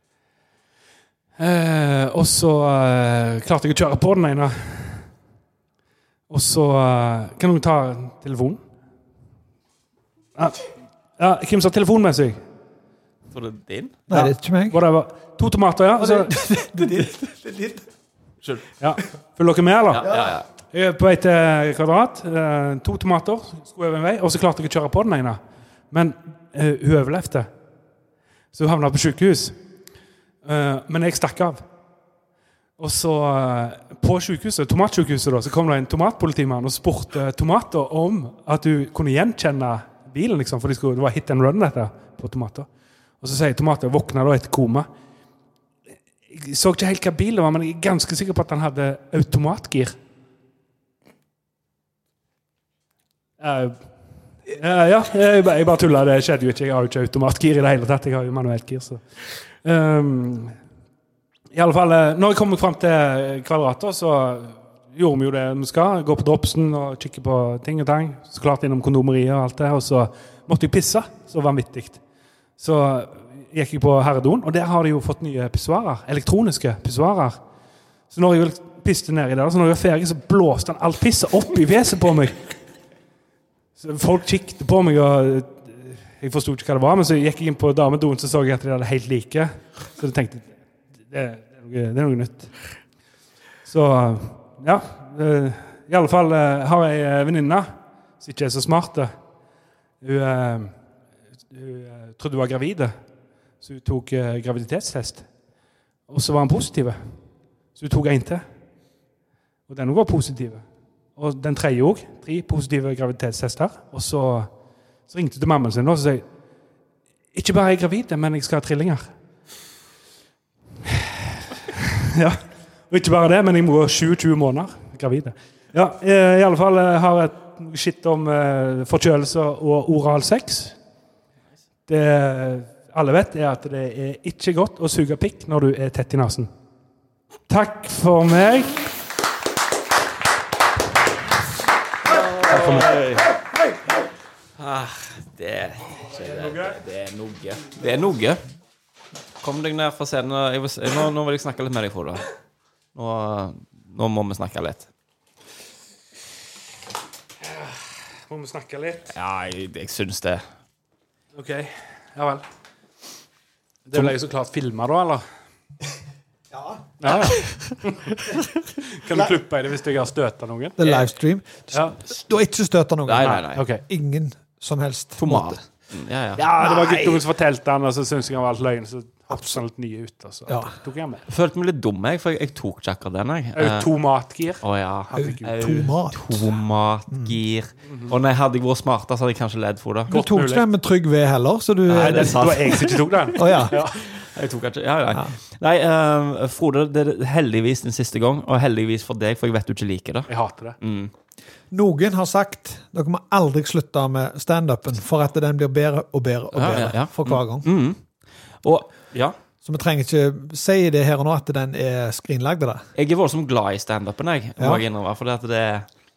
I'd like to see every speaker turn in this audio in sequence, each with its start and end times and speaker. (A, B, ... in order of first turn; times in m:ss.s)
0:01.4-0:05.1 A
0:06.3-0:08.6 A
0:10.4-0:12.4 A
0:13.3-0:14.0 B
0:14.1-0:14.8 C
0:14.1-0:16.4 A
0:16.0-0:17.8 C
0:18.8-0:20.1 A
0:19.9-0:20.4 B
0:20.7-0:25.4 A
0:25.9-0:27.5 A
0:28.5-0:29.6 A
0:30.4-0:31.6 A
0:32.8-0:42.7 A
0:43.2-0:44.9 A
0:46.3-0:50.0 A
0:53.4-0:53.8 A
0:54.4-1:00.6 A
1:01.5-1:12.0 A
1:12.6-1:17.4 A
1:18.1-1:22.5 A
1:23.8-1:30.5 A
1:31.1-1:32.5 A
1:33.6-1:39.1 A
1:40.0-1:40.7 A
1:41.5-1:43.0 A
1:43.6-1:45.3 A
1:46.1-1:47.2 A
1:47.7-1:48.4 A
1:49.7-1:50.6 A
1:51.2-1:54.5 A
1:55.1-1:56.2 A
1:57.3-1:59.1 A
2:02.1-2:10.8 A
2:11.9-2:16.5 A
2:17.5-2:18.8 A
2:22.1-2:23.3 B
2:22.5-2:22.9 A
2:24.6-2:28.4 B
2:29.4-2:32.2 B
2:32.9-2:34.9 B
2:37.4-2:37.7 A
2:38.3-2:39.1 A
2:39.1-2:40.4 B
2:41.3-2:42.4 A
2:43.9-2:45.2 A
2:46.5-2:46.8 C
2:47.0-2:48.3 A
2:48.8-2:51.1 A
2:50.8-2:55.6 C
2:53.0-2:53.6 B
2:53.2-2:53.8 A
2:55.2-2:56.4 B
2:56.4-3:01.2 A
2:56.6-2:57.2 C
2:59.3-2:59.6 C
3:00.5-3:00.7 C
3:01.3-3:03.9 B
3:03.5-3:05.7 A
3:04.6-3:10.1 B
3:05.1-3:06.4 C
3:07.1-3:07.4 C
3:07.9-3:08.1 A
3:10.1-3:10.6 A
3:10.1-3:13.8 C
3:11.9-3:21.1 B
3:12.0-3:14.0 A
3:20.3-3:20.8 A
3:21.7-3:27.7 C
3:26.5-3:28.0 B
3:28.6-3:29.4 B
3:29.6-3:32.8 C
3:33.0-3:35.9 B